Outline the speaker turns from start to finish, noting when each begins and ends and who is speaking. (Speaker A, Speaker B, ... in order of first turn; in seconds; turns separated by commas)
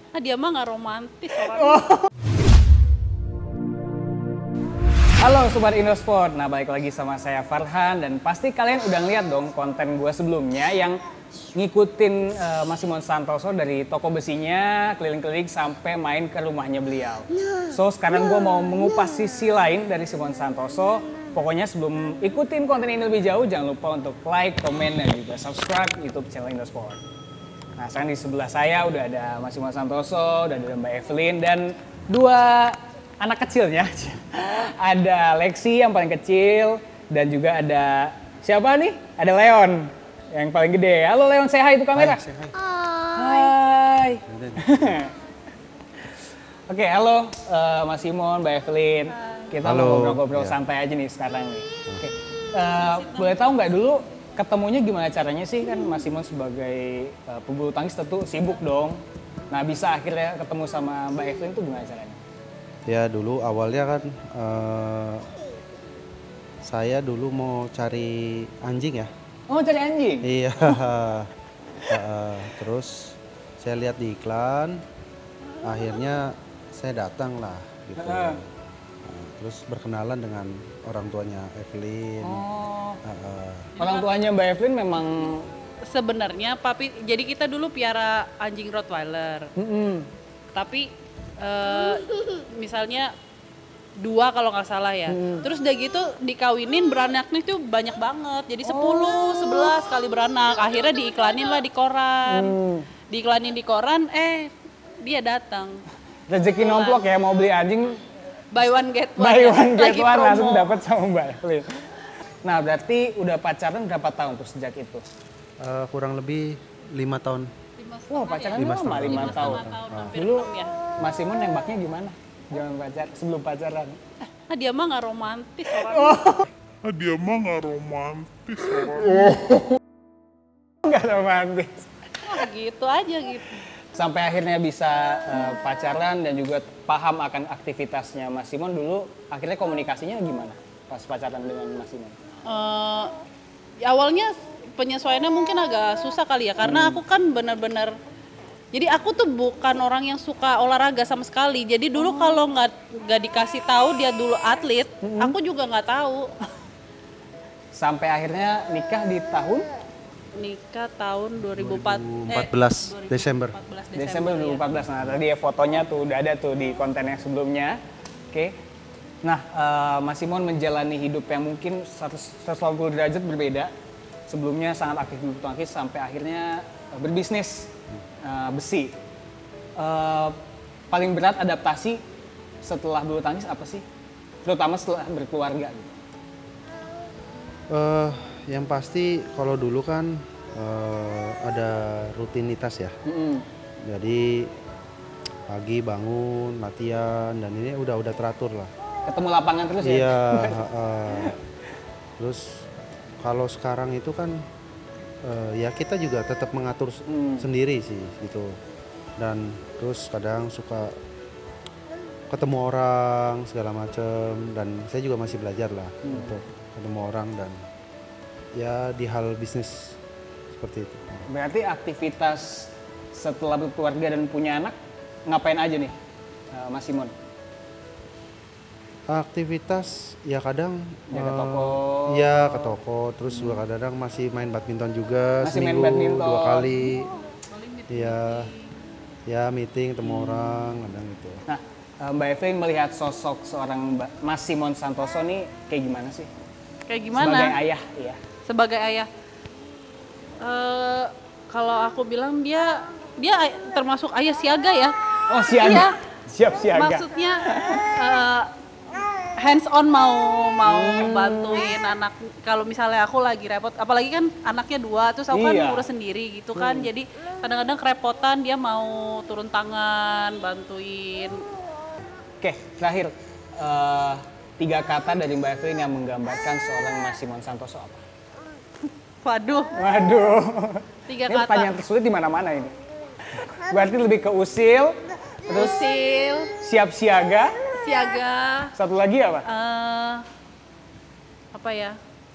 Speaker A: 0.1-1.9, Speaker B: 1.4-2.1, Speaker B: 5.2-11.0, Speaker B: 11.5-27.0, Speaker B: 27.8-42.2, Speaker C: 41.9-42.6, Speaker B: 43.0-45.1, Speaker C: 44.3-45.0, Speaker B: 46.7-62.2, Speaker C: 49.6-50.6, Speaker C: 62.9-65.3, Speaker C: 66.6-69.1, Speaker B: 69.5-70.8, Speaker C: 70.2-71.3, Speaker C: 71.9-74.8, Speaker C: 75.6-78.5, Speaker B: 78.0-78.4, Speaker C: 79.0-82.5, Speaker B: 82.2-83.0, Speaker C: 83.0-83.7, Speaker A: 83.8-84.1, Speaker B: 83.8-85.5, Speaker A: 85.9-89.5, Speaker B: 89.6-90.1, Speaker A: 90.5-93.1, Speaker A: 94.0-102.6, Speaker B: 95.1-95.5, Speaker B: 98.6-99.7, Speaker B: 102.3-102.9, Speaker A: 103.1-105.8, Speaker B: 106.3-108.0, Speaker A: 106.6-107.0, Speaker A: 108.5-110.8, Speaker B: 109.2-111.8, Speaker B: 112.4-115.0, Speaker C: 115.6-117.5, Speaker A: 117.8-120.8, Speaker B: 118.1-124.0, Speaker C: 118.6-120.2, Speaker A: 124.5-126.3, Speaker B: 125.8-126.5, Speaker D: 126.8-129.0, Speaker B: 128.7-129.7, Speaker B: 130.8-131.9, Speaker A: 132.2-133.5, Speaker B: 133.8-142.2, Speaker A: 142.5-143.1, Speaker A: 143.8-147.9, Speaker B: 146.6-147.0, Speaker A: 148.7-156.3, Speaker B: 155.0-155.3, Speaker B: 157.7-159.7, Speaker A: 160.3-164.7, Speaker C: 161.4-163.6, Speaker B: 163.9-167.8, Speaker B: 169.2-173.7, Speaker B: 174.3-177.7, Speaker B: 178.2-178.9, Speaker B: 179.8-180.4, Speaker B: 180.9-182.0, Speaker B: 182.6-183.8, Speaker B: 184.4-185.9, Speaker C: 187.7-193.0, Speaker B: 193.1-193.4, Speaker C: 193.8-194.5, Speaker C: 195.5-198.7, Speaker B: 199.1-200.6, Speaker C: 199.8-201.4, Speaker B: 201.1-201.4, Speaker C: 202.2-202.6, Speaker C: 203.2-204.4, Speaker C: 205.2-208.6, Speaker B: 207.1-207.5, Speaker C: 209.2-210.9, Speaker C: 212.3-217.6, Speaker B: 216.0-216.4, Speaker C: 218.6-220.0, Speaker C: 220.5-221.3, Speaker B: 221.3-225.9, Speaker B: 226.5-227.1, Speaker C: 229.1-237.2, Speaker B: 231.1-232.7, Speaker B: 233.3-233.6, Speaker B: 235.4-236.7, Speaker A: 237.3-238.7, Speaker C: 237.9-238.5, Speaker C: 239.3-241.4, Speaker B: 240.0-240.8, Speaker B: 241.5-246.3, Speaker A: 246.9-247.6, Speaker B: 247.1-248.2, Speaker A: 248.5-249.1, Speaker A: 250.4-255.9, Speaker B: 255.3-257.9, Speaker A: 256.7-258.5, Speaker A: 259.2-271.4, Speaker B: 260.6-261.7, Speaker B: 265.3-265.9, Speaker B: 266.6-266.9, Speaker B: 272.4-278.1, Speaker A: 279.2-279.8, Speaker B: 279.7-285.8, Speaker A: 281.1-281.8, Speaker A: 285.5-286.5, Speaker B: 286.6-287.6, Speaker A: 287.8-288.7, Speaker B: 288.7-289.5, Speaker A: 289.4-290.2, Speaker A: 291.5-292.0